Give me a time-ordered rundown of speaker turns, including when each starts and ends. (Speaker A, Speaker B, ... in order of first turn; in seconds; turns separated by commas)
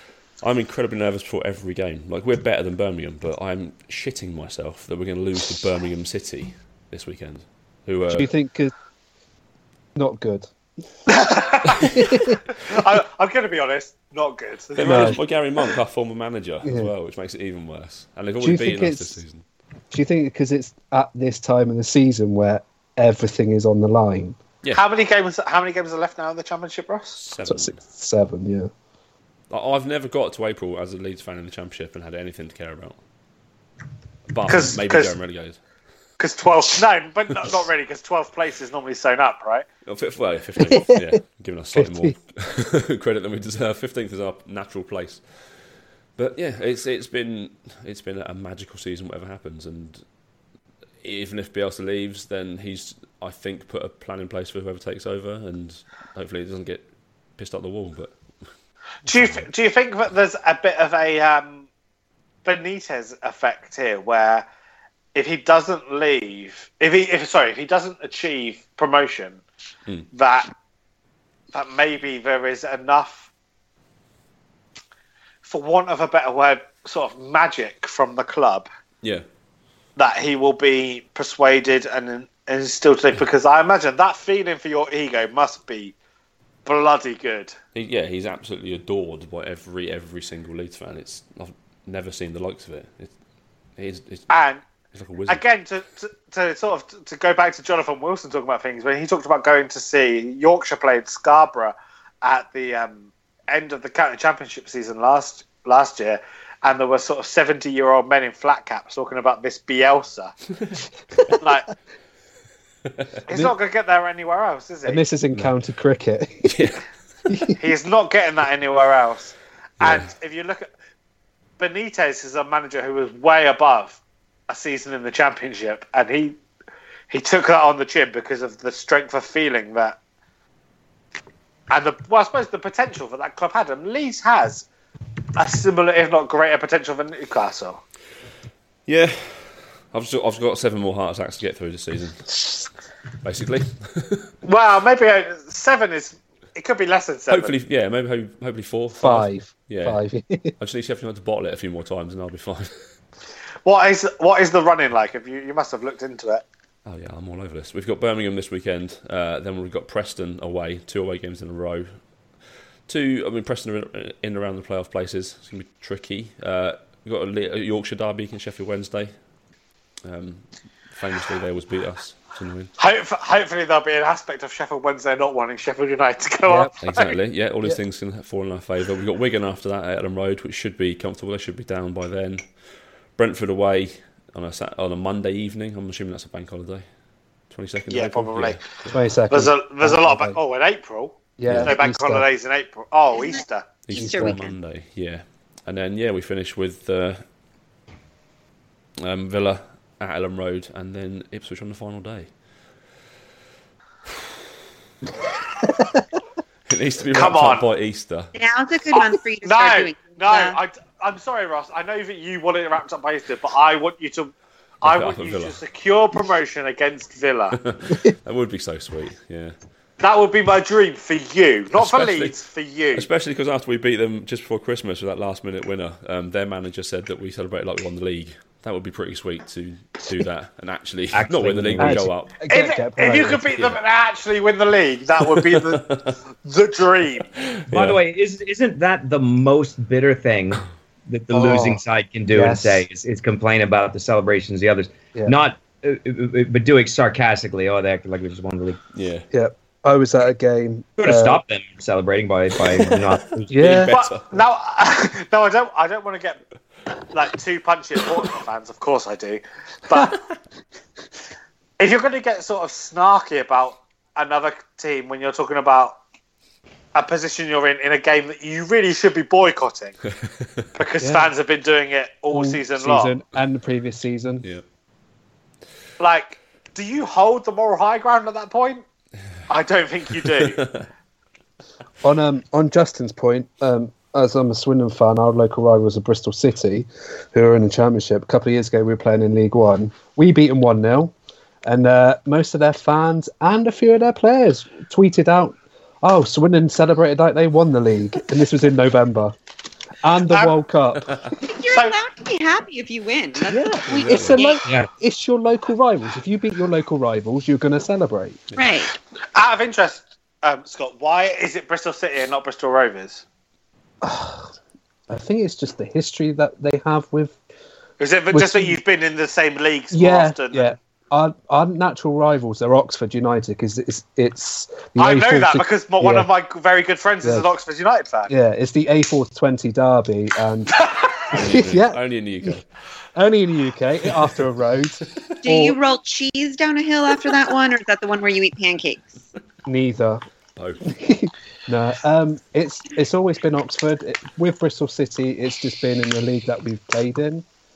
Speaker A: 0.4-8.3, Speaker B: 8.1-8.7, Speaker B: 10.0-10.5, Speaker C: 11.1-11.9, Speaker B: 11.8-12.4, Speaker C: 12.5-15.2, Speaker A: 14.8-19.4, Speaker B: 14.8-15.2, Speaker B: 16.6-16.9, Speaker B: 18.4-19.2, Speaker B: 19.9-24.4, Speaker C: 24.7-27.2, Speaker A: 27.2-27.8, Speaker B: 27.4-28.7, Speaker A: 29.5-33.0, Speaker A: 34.3-35.6, Speaker C: 34.5-35.1, Speaker C: 36.2-39.6, Speaker A: 39.9-45.2, Speaker B: 40.7-41.0, Speaker B: 41.8-42.1, Speaker A: 46.2-50.0, Speaker A: 51.0-56.9, Speaker A: 57.4-58.1, Speaker C: 59.1-61.7, Speaker A: 59.1-59.5, Speaker C: 62.5-64.5, Speaker C: 65.2-69.4, Speaker C: 70.1-70.5, Speaker C: 71.5-73.3, Speaker C: 75.4-78.7, Speaker C: 80.0-85.9, Speaker C: 86.7-87.5, Speaker A: 87.8-93.1, Speaker A: 93.8-94.3, Speaker C: 94.3-94.6, Speaker A: 94.9-95.4, Speaker C: 95.3-110.3, Speaker C: 111.3-111.7, Speaker C: 113.3-115.1, Speaker B: 114.9-116.6, Speaker A: 116.5-116.8, Speaker B: 117.3-117.6, Speaker C: 117.6-120.7, Speaker A: 119.8-120.1, Speaker C: 121.6-126.4, Speaker C: 127.1-130.0, Speaker C: 131.7-134.7, Speaker C: 135.4-137.8, Speaker A: 138.9-142.6, Speaker A: 143.2-144.3, Speaker C: 144.4-147.5, Speaker A: 147.3-150.0, Speaker B: 149.0-150.5, Speaker A: 150.6-152.7, Speaker C: 153.7-156.4, Speaker A: 156.9-161.9, Speaker A: 162.9-169.1, Speaker A: 170.1-172.7, Speaker C: 172.8-177.2, Speaker A: 176.7-182.5, Speaker A: 183.2-186.8, Speaker A: 187.5-189.1, Speaker C: 187.9-188.6, Speaker B: 188.9-190.4, Speaker C: 189.3-193.7, Speaker B: 191.4-192.3, Speaker A: 191.5-191.7, Speaker D: 193.1-194.6, Speaker A: 193.9-197.2, Speaker B: 194.0-194.3, Speaker A: 199.0-202.3, Speaker A: 206.7-208.3, Speaker C: 207.1-207.7, Speaker D: 208.3-210.6, Speaker C: 208.9-217.6, Speaker A: 214.8-215.6, Speaker A: 217.5-219.5, Speaker C: 220.0-223.1, Speaker A: 221.8-222.4, Speaker A: 222.9-232.4, Speaker E: 231.1-232.1, Speaker B: 231.8-233.5, Speaker C: 232.5-237.3, Speaker A: 233.5-233.8, Speaker A: 235.2-236.2, Speaker A: 237.4-238.0, Speaker E: 237.7-248.8, Speaker B: 241.3-242.8, Speaker A: 248.9-249.3, Speaker B: 249.3-251.4, Speaker E: 251.0-253.9, Speaker A: 252.7-254.4, Speaker B: 253.5-254.0, Speaker C: 253.9-256.4, Speaker C: 257.1-260.2, Speaker C: 261.8-266.0, Speaker C: 266.9-270.0, Speaker A: 270.3-270.7, Speaker C: 270.8-273.2, Speaker B: 271.0-271.3, Speaker B: 272.3-274.4, Speaker C: 276.0-278.8, Speaker C: 279.5-280.6, Speaker A: 280.2-280.8, Speaker B: 282.0-291.1, Speaker B: 291.6-299.4, Speaker B: 300.0-301.1, Speaker C: 300.3-300.6, Speaker D: 301.4-304.6, Speaker C: 301.7-301.9, Speaker B: 303.5-308.4, Speaker A: 303.9-304.4, Speaker D: 308.6-309.0, Speaker C: 309.4-313.2, Speaker B: 314.0-314.5, Speaker B: 315.1-317.4, Speaker C: 318.0-320.8, Speaker B: 318.3-318.8, Speaker B: 319.9-326.3, Speaker C: 325.0-328.3, Speaker B: 327.2-327.5, Speaker B: 328.3-330.7, Speaker C: 330.8-331.1, Speaker A: 331.3-332.6, Speaker B: 331.3-332.6, Speaker B: 333.2-335.8, Speaker D: 335.4-339.2, Speaker B: 339.7-340.2, Speaker A: 340.6-340.9, Speaker B: 340.8-347.4